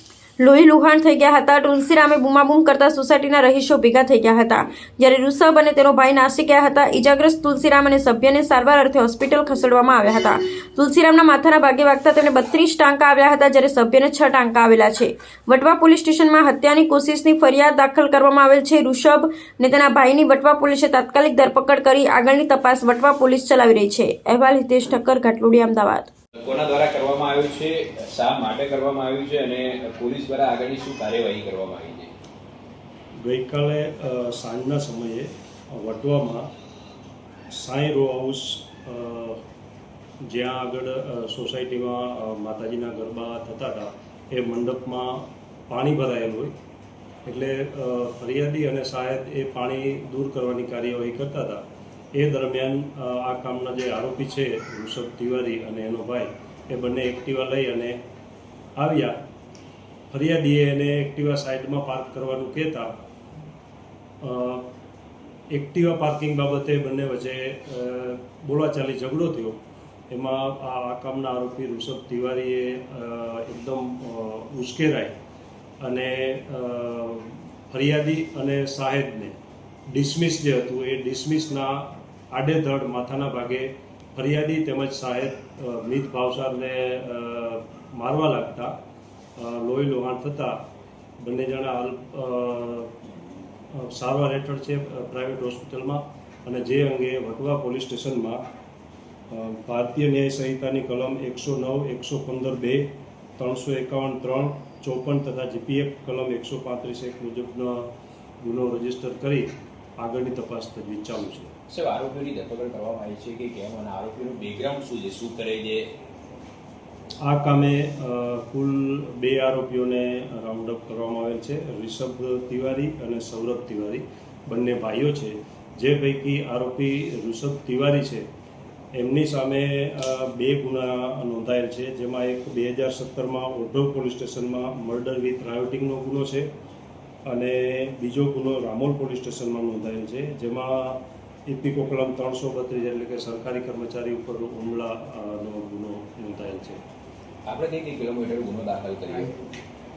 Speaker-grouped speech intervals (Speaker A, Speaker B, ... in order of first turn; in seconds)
Speaker A: 0.4-26.1
Speaker B: 26.4-32.1, 111.7-115.9, 147.5-149.3
Speaker C: 33.2-36.5, 37.5-39.4, 40.2-46.5, 47.2-51.6, 52.1-58.0, 58.8-59.2, 60.1-62.9, 64.2-64.6, 65.5-69.6, 70.1-75.1, 75.8-79.3, 79.9-88.7, 89.3-90.6, 91.2-93.0, 93.7-98.4, 99.3-107.9, 108.4-111.5, 117.2-128.2, 128.9-136.5, 137.2-146.8